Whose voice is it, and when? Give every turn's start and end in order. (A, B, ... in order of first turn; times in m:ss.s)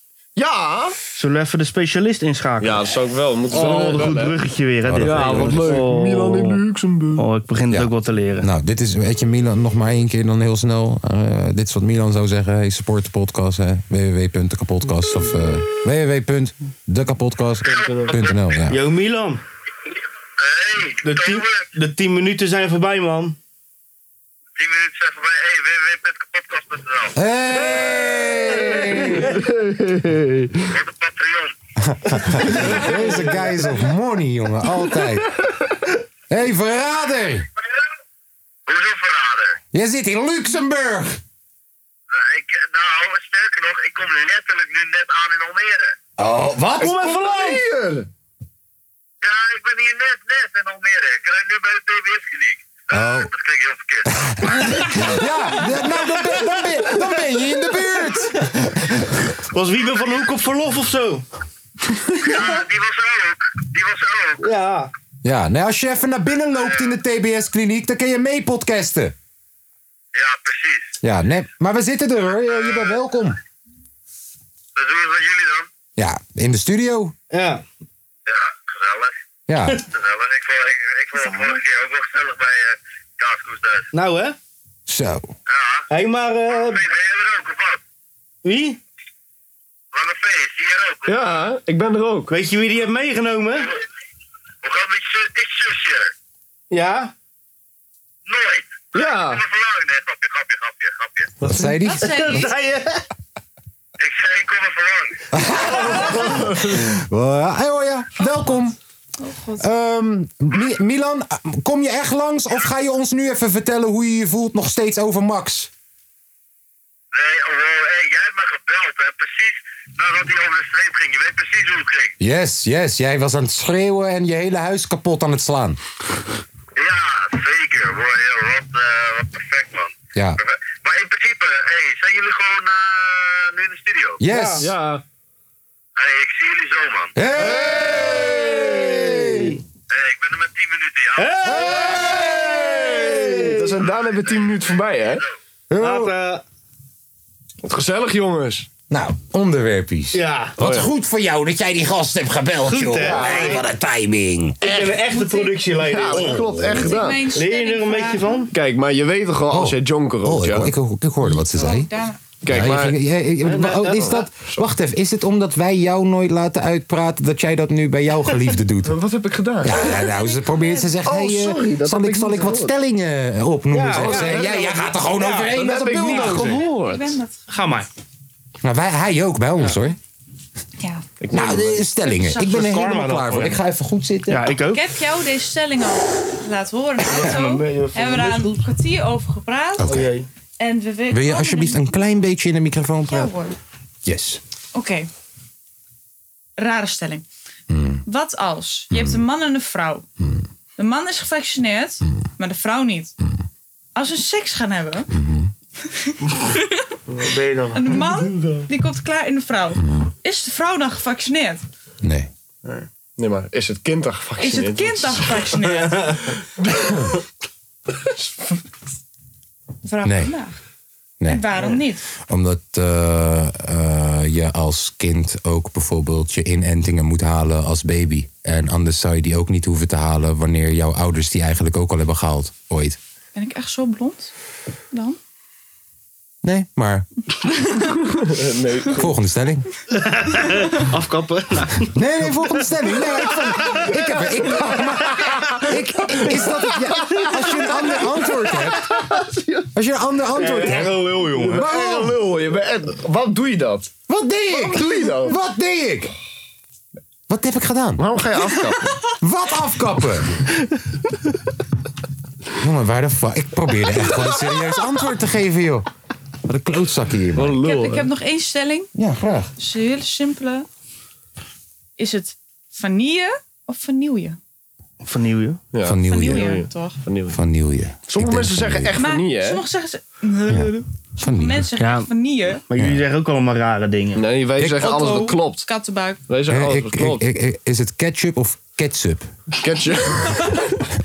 0:00.4-0:01.0 A
0:01.2-0:02.9 B
0:02.6-0:04.4 A
0:03.5-0:06.6 B
0:04.9-0:05.8 C
0:05.0-0:07.2 A
0:07.2-0:08.5 B
0:07.7-0:18.8 C
0:17.7-0:18.1 B
0:17.7-0:18.4 D
0:18.7-0:19.4 B
0:20.4-0:21.6 D
0:21.0-0:23.4 B
0:24.6-0:27.2 D
0:27.2-0:29.4 C
0:29.3-0:30.5 A
0:30.7-0:31.6 D
0:31.8-0:35.4 C
0:36.3-0:37.5 C
0:38.7-0:39.6 D
0:39.7-0:41.2 C
0:42.1-0:46.0 D
0:46.2-0:47.3 C
0:46.8-0:48.1 A
0:46.8-0:47.6 B
0:49.2-0:55.0 D
0:52.9-0:53.3 C
0:54.3-0:59.1 C
0:59.5-1:01.2 B
1:02.2-1:04.4 D
1:04.4-1:04.9 B
1:05.2-1:09.2 C
1:06.6-1:06.9 D
1:10.1-1:10.9 D
1:11.0-1:13.4 C
1:12.5-1:13.0 D
1:14.8-1:15.7 D
1:16.0-1:17.1 C
1:17.3-1:17.6 B
1:18.3-1:19.1 D
1:19.5-1:19.8 C
1:19.9-1:23.9 D
1:21.2-1:21.5 B
1:23.9-1:24.4 B
1:24.9-1:25.3 C
1:25.5-1:25.8 D
1:25.9-1:26.8 B
1:26.6-1:27.8 D
1:28.4-1:28.8 B
1:29.9-1:31.2 D
1:31.1-1:32.3 A
1:32.3-1:33.7 B
1:34.6-1:36.1 D
1:36.7-1:37.1 B
1:38.3-1:41.3 D
1:38.9-1:39.4 A
1:41.4-1:42.5 C
1:41.4-1:43.0 B
1:41.9-1:42.5 E
1:44.0-1:45.2 D
1:45.3-1:48.8 C
1:48.2-1:48.5 E
1:49.2-1:49.7 E
1:49.6-1:55.7 C
1:57.1-2:02.1 D
2:02.2-2:05.8 C
2:06.8-2:14.2 D
2:14.2-2:14.7 C
2:14.3-2:14.6 B
2:14.6-2:15.0 A
2:16.0-2:17.2 D
2:17.2-2:19.6 C
2:18.5-2:19.6 B
2:19.9-2:21.4 D
2:21.2-2:23.7 B
2:21.4-2:23.4 C
2:23.4-2:25.2 A
2:24.3-2:24.6 D
2:25.7-2:26.1 C
2:25.8-2:26.4 B
2:27.6-2:28.7 A
2:28.9-2:34.6 C
2:30.1-2:30.5 B
2:30.6-2:30.9 A
2:32.6-2:33.6 B
2:33.0-2:33.6 A
2:34.6-2:38.5 B
2:34.6-2:35.0 A
2:35.1-2:35.6 E
2:35.7-2:37.3 A
2:36.7-2:38.5 E
2:38.5-2:40.7 A
2:39.5-2:41.9 C
2:41.5-2:42.2 E
2:42.4-2:43.0 A
2:42.5-2:49.0 C
2:43.4-2:44.2 B
2:44.0-2:44.6 A
2:48.8-2:50.0 A
2:49.6-2:56.6 C
2:49.7-2:51.0 E
2:51.0-2:52.7 A
2:53.7-2:54.4 B
2:53.9-2:57.2 A
2:56.0-2:56.6 B
2:56.5-2:57.4 E
2:57.5-2:57.9 B
2:58.6-3:00.0 C
3:00.8-3:01.1 E
3:01.2-3:01.8 A
3:01.3-3:04.5 C
3:02.0-3:02.7 E
3:02.5-3:03.6 B
3:04.3-3:04.8 B
3:04.7-3:10.0 E
3:07.1-3:08.6 B
3:09.8-3:10.1 C
3:09.8-3:10.3 B
3:10.6-3:12.0 E
3:11.1-3:13.3 C
3:13.1-3:13.6 E
3:14.0-3:14.4 C
3:14.7-3:15.1 E
3:16.6-3:17.3 E
3:17.7-3:18.0 C
3:18.1-3:20.1 E
3:18.9-3:19.2 C
3:20.8-3:23.2 E
3:24.0-3:25.1 E
3:25.1-3:25.5 C
3:25.9-3:26.9 E
3:27.1-3:28.6 B
3:27.7-3:31.6 E
3:32.0-3:32.3 C
3:33.2-3:35.5 A
3:34.4-3:36.2 E
3:35.7-3:36.3 B
3:36.7-3:37.0 A
3:39.8-3:40.6 E
3:40.0-3:40.3 C
3:41.2-3:41.5 C
3:41.3-3:42.0 E
3:42.2-3:53.0 C
3:53.4-3:54.3 E
3:54.9-3:55.2 E
3:56.4-3:57.1 C
3:57.4-3:57.9 E
3:58.2-3:59.1 A
3:58.9-3:59.7 C
3:59.9-4:02.0 B
4:01.9-4:08.9 C
4:03.9-4:04.9 A
4:07.2-4:07.7 A
4:09.7-4:11.1 C
4:10.4-4:11.7 B
4:11.3-4:13.9 A
4:11.6-4:12.2 C
4:14.1-4:16.1 C
4:14.5-4:15.4 A
4:17.3-4:18.1 C
4:18.0-4:18.9 A
4:19.2-4:20.3 C
4:22.6-4:25.9 C
4:26.4-4:27.6 C
4:27.4-4:28.1 A
4:27.5-4:28.9 E
4:29.0-4:29.5 C
4:29.6-4:30.7 E
4:32.0-4:34.4 E
4:35.0-4:35.6 B
4:35.7-4:37.4 A
4:35.8-4:36.6 C
4:36.0-4:37.0 E
4:37.3-4:39.0 C
4:38.1-4:39.6 A
4:39.0-4:42.6 E
4:40.5-4:41.7 C
4:41.8-4:42.1 B
4:42.7-4:44.2 B
4:42.8-4:43.0 C
4:44.2-4:45.7 A
4:44.6-4:44.9 C
4:44.7-4:46.2 E
4:46.3-4:47.2 A
4:46.5-4:49.3 C
4:49.6-4:50.8 A